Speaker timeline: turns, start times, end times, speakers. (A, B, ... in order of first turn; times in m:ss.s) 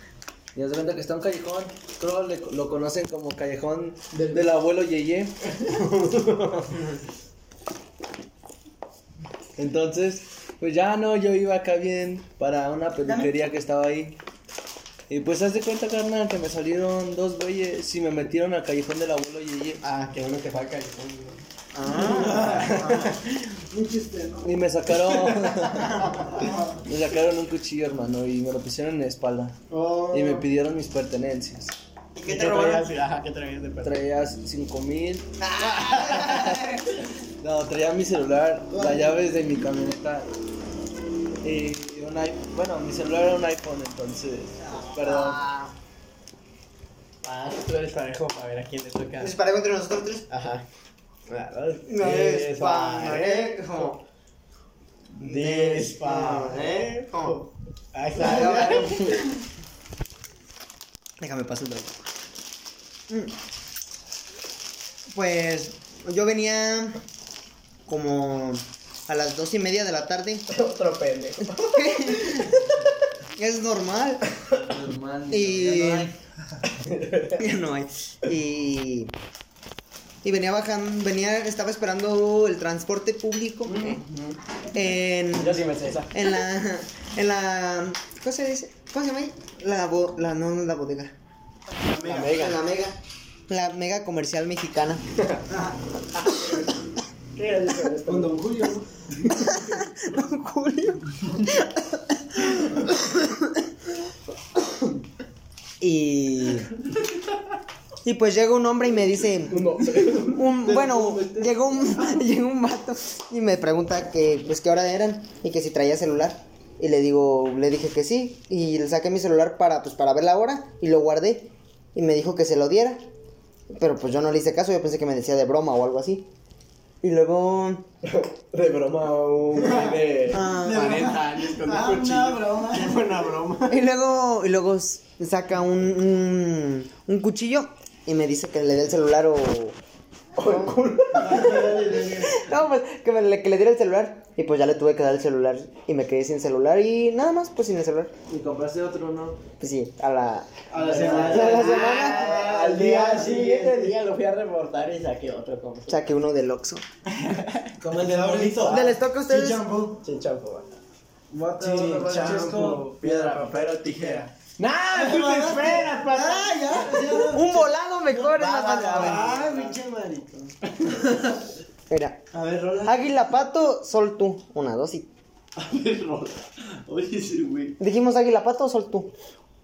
0:00.6-0:05.4 A
0:05.6-0:06.8 B
0:09.6-0:14.2 A
0:15.1-0:19.8 A
0:19.8-0:23.2 B
0:21.7-0:23.1 C
0:22.2-0:22.9 D
0:23.7-0:24.5 D
0:24.4-0:29.6 A
0:25.1-0:25.8 B
0:26.0-0:26.8 D
0:29.7-0:30.5 D
0:30.1-0:31.7 A
0:32.2-0:32.8 C
0:32.2-0:34.0 B
0:33.8-0:36.8 A
0:35.4-0:36.8 C
0:37.4-0:40.3 A
0:38.7-0:39.2 D
0:41.4-0:45.4 A
0:44.6-0:45.7 C
0:47.2-0:49.4 B
0:49.2-0:50.3 C
0:50.3-0:50.7 B
0:51.3-0:53.9 B
0:51.8-0:54.0 C
0:55.2-0:59.1 B
0:55.2-0:57.5 C
0:58.2-0:59.4 C
1:01.2-1:02.0 C
1:03.1-1:03.4 C
1:05.1-1:07.0 C
1:07.9-1:10.5 C
1:10.5-1:12.7 B
1:11.4-1:12.7 C
1:13.3-1:14.2 C
1:14.5-1:16.2 A
1:15.3-1:16.1 C
1:16.7-1:17.4 B
1:17.4-1:19.1 C
1:20.2-1:24.0 C
1:23.6-1:24.4 B
1:24.7-1:31.1 C
1:25.3-1:26.4 B
1:31.8-1:32.4 D
1:32.0-1:32.6 B
1:32.2-1:35.0 C
1:35.2-1:35.4 B
1:36.2-1:36.6 B
1:37.4-1:38.5 B
1:38.1-1:39.3 A
1:39.3-1:43.6 C
1:45.8-1:46.7 C
1:48.0-2:03.1 C
1:49.5-1:50.4 B
1:50.6-1:51.4 D
2:03.8-2:06.3 C
2:07.0-2:07.8 C
2:08.0-2:13.8 B
2:09.6-2:10.0 D
2:10.3-2:11.2 C
2:10.6-2:13.0 D
2:13.7-2:19.8 C
2:20.4-2:21.7 B
2:20.4-2:20.8 C
2:21.1-2:22.4 D
2:22.1-2:28.1 C
2:28.3-2:29.4 A
2:29.6-2:32.4 C
2:30.7-2:34.0 D
2:30.7-2:32.0 A
2:30.9-2:36.0 B
2:35.9-2:36.8 C
2:37.8-2:38.8 A
2:38.0-2:40.0 D
2:38.2-2:39.0 B
2:38.6-2:39.6 C
2:40.0-2:40.7 B
2:41.3-2:44.3 A
2:41.6-2:44.2 D
2:42.0-2:47.3 B
2:44.9-2:47.7 D
2:47.3-2:49.3 C
2:48.1-2:49.8 B
2:48.8-2:50.5 D
2:50.9-2:51.4 A
2:51.9-2:52.2 C
2:52.4-2:52.9 B
2:52.8-2:55.1 C
2:55.7-2:56.3 B
2:56.2-2:56.6 A
2:56.9-2:57.4 B
2:57.4-2:57.7 A
2:57.8-2:59.1 C